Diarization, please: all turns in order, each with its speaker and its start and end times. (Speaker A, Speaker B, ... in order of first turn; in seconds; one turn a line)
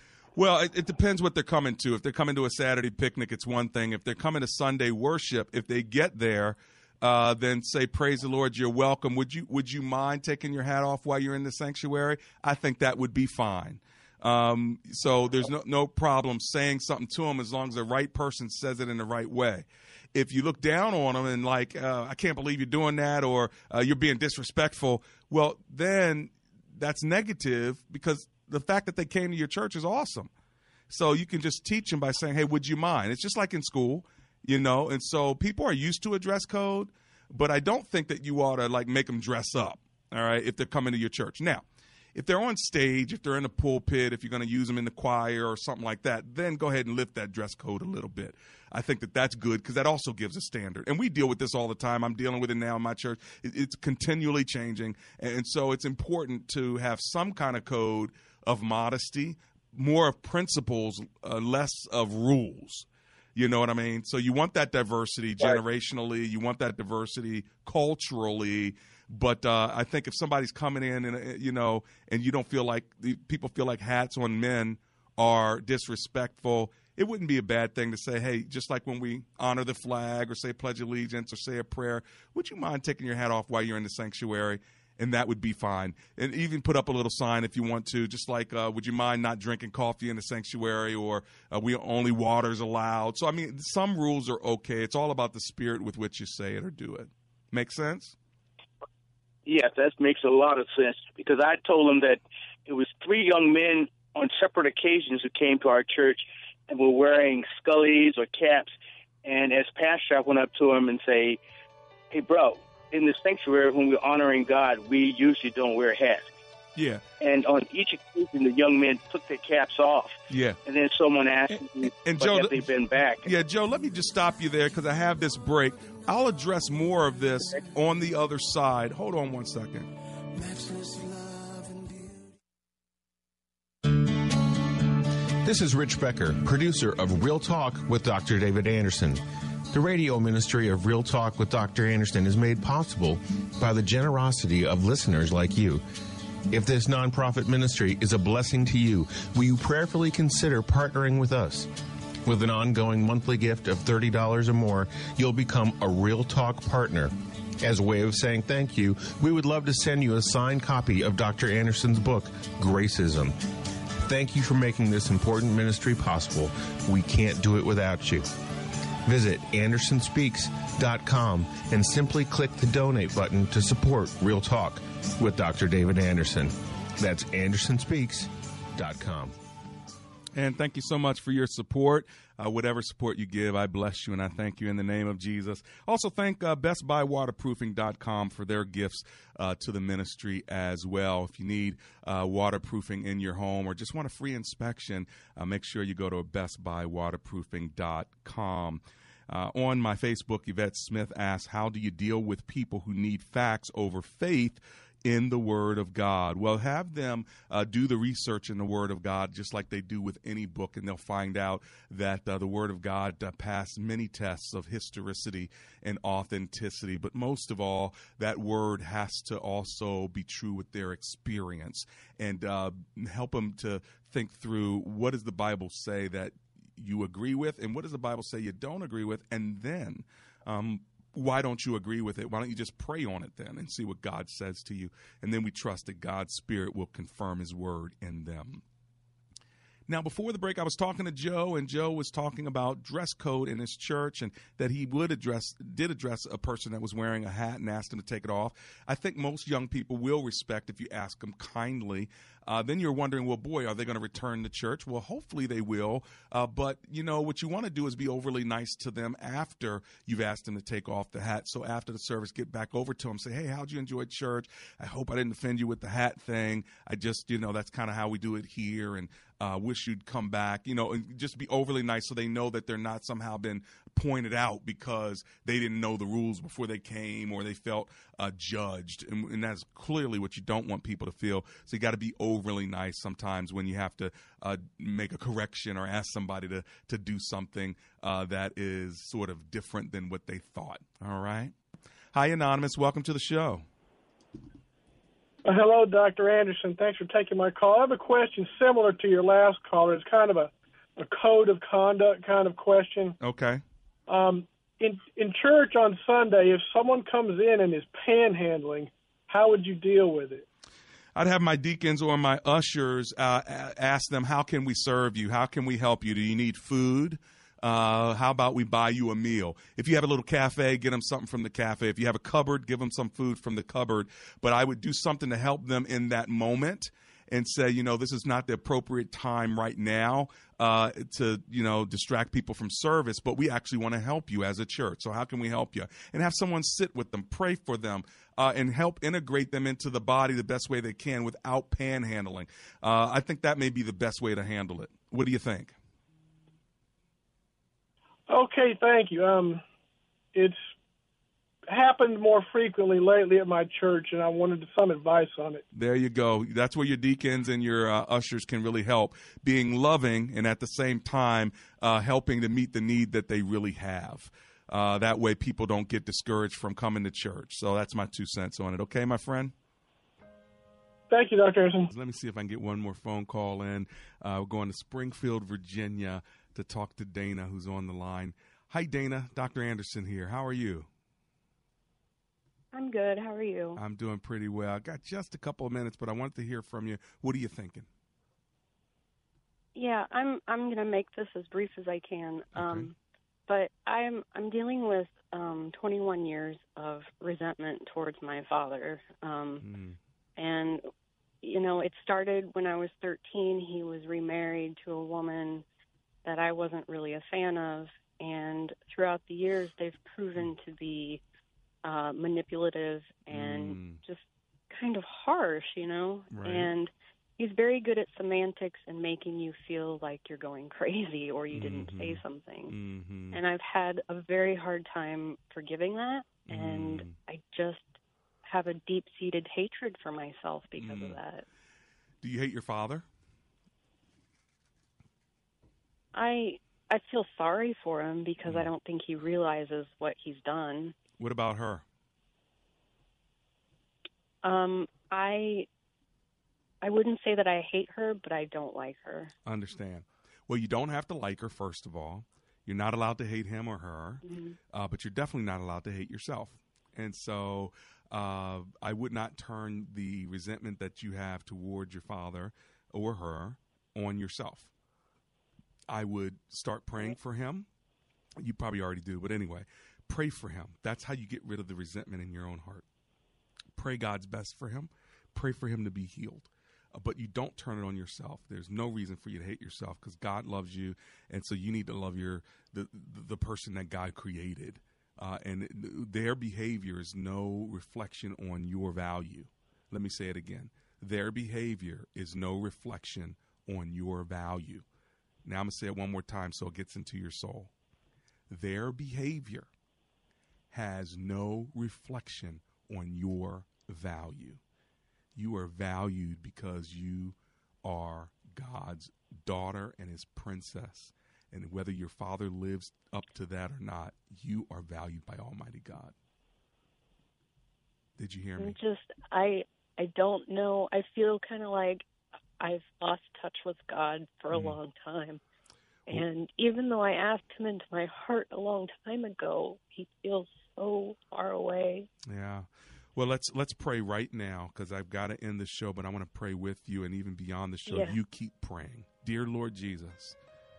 Speaker A: 0.4-30.3
Speaker A: 30.9-41.6
Speaker A: 42.1-98.2
Speaker B: 99.5-111.4
Speaker B: 112.1-116.2
Speaker A: 116.8-117.0
Speaker B: 117.2-123.3
Speaker A: 120.3-120.6
Speaker A: 121.5-122.6
Speaker A: 123.2-129.9
Speaker C: 135.4-145.8
Speaker C: 146.5-151.7
Speaker C: 152.3-163.3
Speaker C: 164.0-168.3
Speaker C: 169.1-179.3
Speaker A: 180.3-238.6
Speaker A: 239.9-291.5
Speaker A: 292.1-293.6
Speaker D: 295.4-303.2
Speaker A: 303.2-303.6
Speaker D: 304.1-310.4
Speaker A: 311.1-345.7
Speaker D: 348.3-349.6
Speaker D: 350.3-350.6
Speaker D: 351.7-355.6
Speaker A: 355.7-369.5
Speaker D: 371.1-371.9
Speaker A: 371.9-380.9
Speaker E: 382.7-383.8
Speaker A: 383.8-387.9
Speaker E: 389.8-393.0
Speaker A: 392.6-392.9
Speaker E: 393.5-399.7
Speaker A: 399.6-400.0
Speaker E: 400.4-400.9
Speaker E: 401.4-405.6
Speaker E: 406.2-411.2
Speaker E: 411.8-422.8
Speaker A: 413.3-414.0
Speaker A: 416.3-416.7
Speaker A: 421.5-423.4
Speaker E: 423.3-431.4
Speaker A: 426.5-427.2
Speaker A: 430.8-431.2
Speaker A: 432.2-433.1
Speaker E: 436.1-440.9
Speaker A: 438.5-438.7
Speaker A: 441.2-441.8
Speaker E: 444.4-445.7
Speaker E: 446.8-449.3
Speaker A: 449.5-464.7
Speaker E: 454.2-454.6
Speaker A: 465.9-467.7
Speaker A: 468.4-472.9
Speaker A: 473.8-494.9
Speaker A: 495.4-497.7
Speaker A: 498.5-499.7
Speaker A: 500.7-504.6
Speaker A: 505.4-516.1
Speaker A: 518.2-518.8
Speaker E: 518.6-522.1
Speaker E: 522.6-525.4
Speaker A: 524.5-524.8
Speaker E: 526.1-532.1
Speaker A: 532.3-540.4
Speaker E: 537.9-538.2